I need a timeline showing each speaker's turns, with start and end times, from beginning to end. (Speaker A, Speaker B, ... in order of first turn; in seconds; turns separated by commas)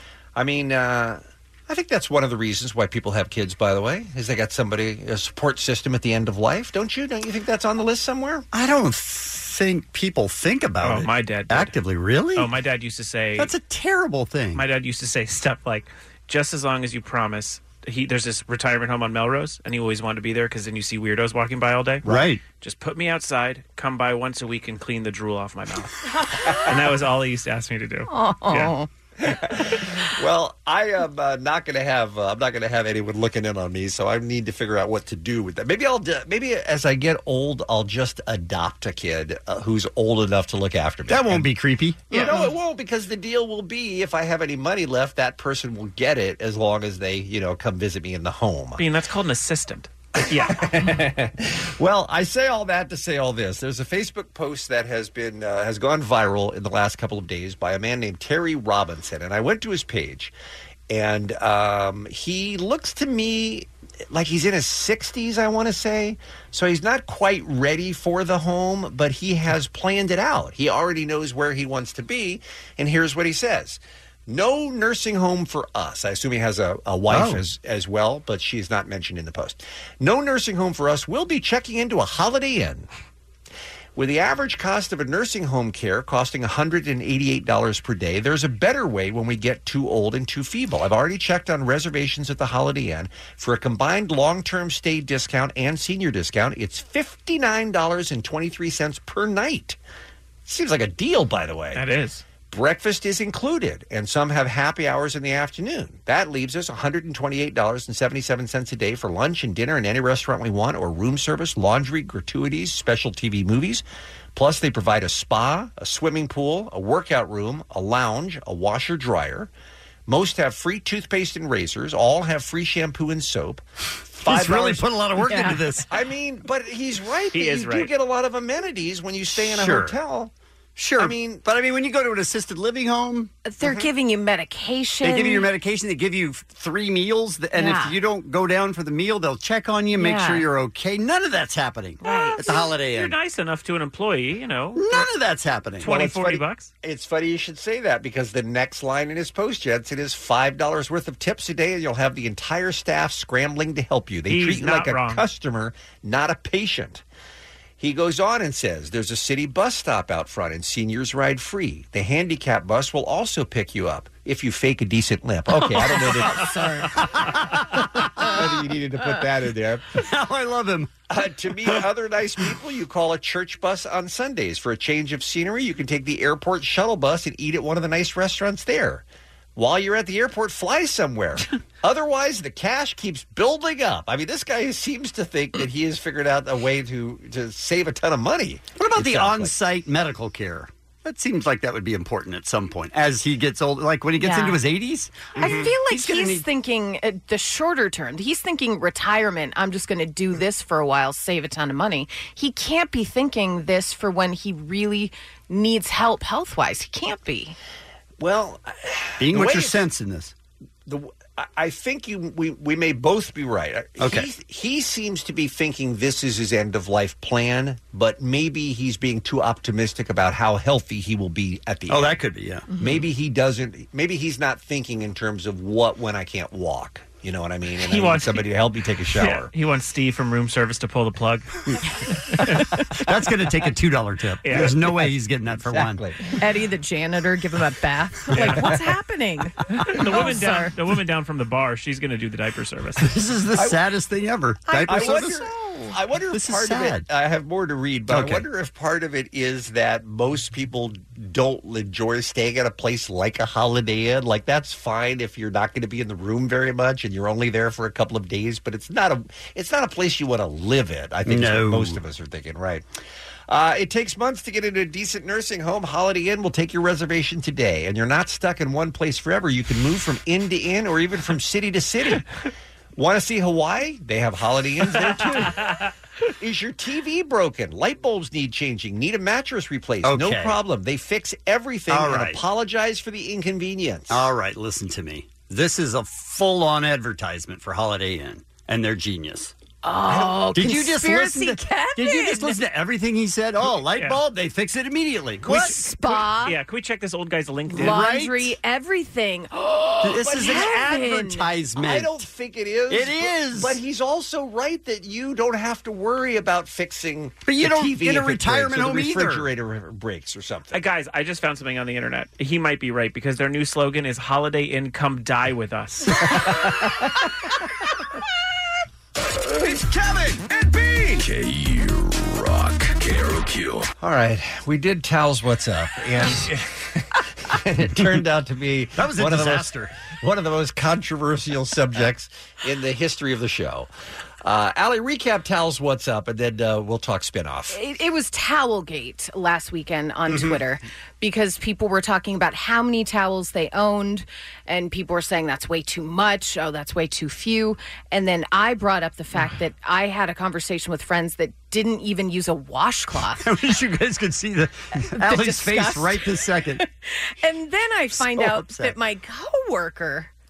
Speaker A: 0.3-8.4, Speaker B: 8.5-12.5, Speaker C: 10.8-11.7, Speaker C: 12.3-13.5, Speaker B: 13.4-14.6, Speaker C: 14.5-22.0, Speaker B: 22.0-22.4, Speaker C: 22.6-28.7, Speaker D: 28.1-28.9, Speaker A: 29.2-41.5, Speaker B: 41.1-42.1, Speaker A: 42.1-48.8, Speaker D: 42.1-42.5, Speaker C: 48.8-50.6, Speaker A: 50.3-60.3, Speaker A: 60.9-82.9, Speaker B: 77.1-77.4, Speaker A: 84.0-99.8, Speaker A: 100.5-101.8, Speaker C: 101.7-102.2, Speaker A: 102.5-113.8, Speaker A: 114.3-119.5, Speaker A: 120.1-124.9, Speaker B: 124.2-125.9, Speaker D: 125.2-125.6, Speaker A: 125.9-130.3, Speaker C: 127.3-127.9, Speaker B: 129.4-130.0, Speaker B: 130.8-133.3, Speaker A: 131.0-131.4, Speaker D: 133.4-135.5, Speaker A: 133.6-133.9, Speaker B: 135.0-143.2, Speaker D: 137.5-138.0, Speaker D: 139.9-140.5, Speaker D: 142.0-142.7, Speaker C: 142.0-145.1, Speaker B: 144.7-145.9, Speaker C: 145.8-146.7, Speaker A: 145.8-157.0, Speaker C: 154.3-155.2, Speaker A: 157.8-166.9, Speaker D: 166.3-167.0, Speaker B: 166.9-168.4, Speaker A: 168.2-170.0, Speaker B: 170.0-170.9, Speaker A: 171.1-179.0, Speaker A: 179.6-189.5, Speaker B: 188.8-196.4, Speaker D: 194.2-194.6, Speaker D: 195.3-207.6, Speaker A: 195.4-195.7, Speaker A: 208.2-209.8, Speaker B: 209.2-210.3, Speaker A: 210.8-222.2, Speaker B: 214.0-214.3, Speaker B: 221.9-222.7, Speaker D: 222.7-223.0, Speaker A: 222.8-229.5, Speaker C: 227.8-228.5, Speaker C: 229.1-231.7, Speaker C: 232.3-232.7, Speaker B: 232.9-236.0, Speaker C: 234.4-235.0, Speaker A: 235.5-236.2, Speaker D: 236.4-240.7, Speaker C: 238.3-238.7, Speaker A: 238.4-238.7, Speaker C: 239.8-243.1, Speaker B: 243.0-245.5, Speaker A: 243.6-243.8, Speaker A: 244.7-262.8, Speaker B: 246.3-247.1, Speaker B: 248.1-248.4, Speaker B: 261.2-262.0, Speaker A: 263.5-272.3, Speaker A: 272.9-275.8, Speaker C: 274.9-275.8, Speaker A: 276.4-284.3, Speaker B: 280.0-280.6, Speaker B: 281.9-282.4, Speaker B: 284.1-289.5, Speaker D: 289.8-292.6, Speaker B: 290.1-295.8, Speaker C: 293.9-294.2, Speaker D: 295.4-296.5, Speaker C: 296.4-298.0, Speaker D: 297.7-301.5, Speaker B: 297.7-298.5, Speaker B: 300.0-302.2, Speaker A: 300.3-300.6, Speaker A: 301.8-310.8, Speaker B: 302.9-303.8, Speaker B: 307.4-309.5, Speaker C: 310.7-316.3, Speaker A: 316.2-316.9, Speaker B: 319.5-321.2, Speaker E: 321.1-323.9, Speaker A: 324.0-333.9, Speaker B: 328.9-329.9, Speaker A: 334.4-337.8, Speaker D: 337.7-353.5, Speaker B: 353.4-356.8, Speaker D: 355.1-356.2, Speaker D: 356.8-360.3, Speaker B: 358.1-358.9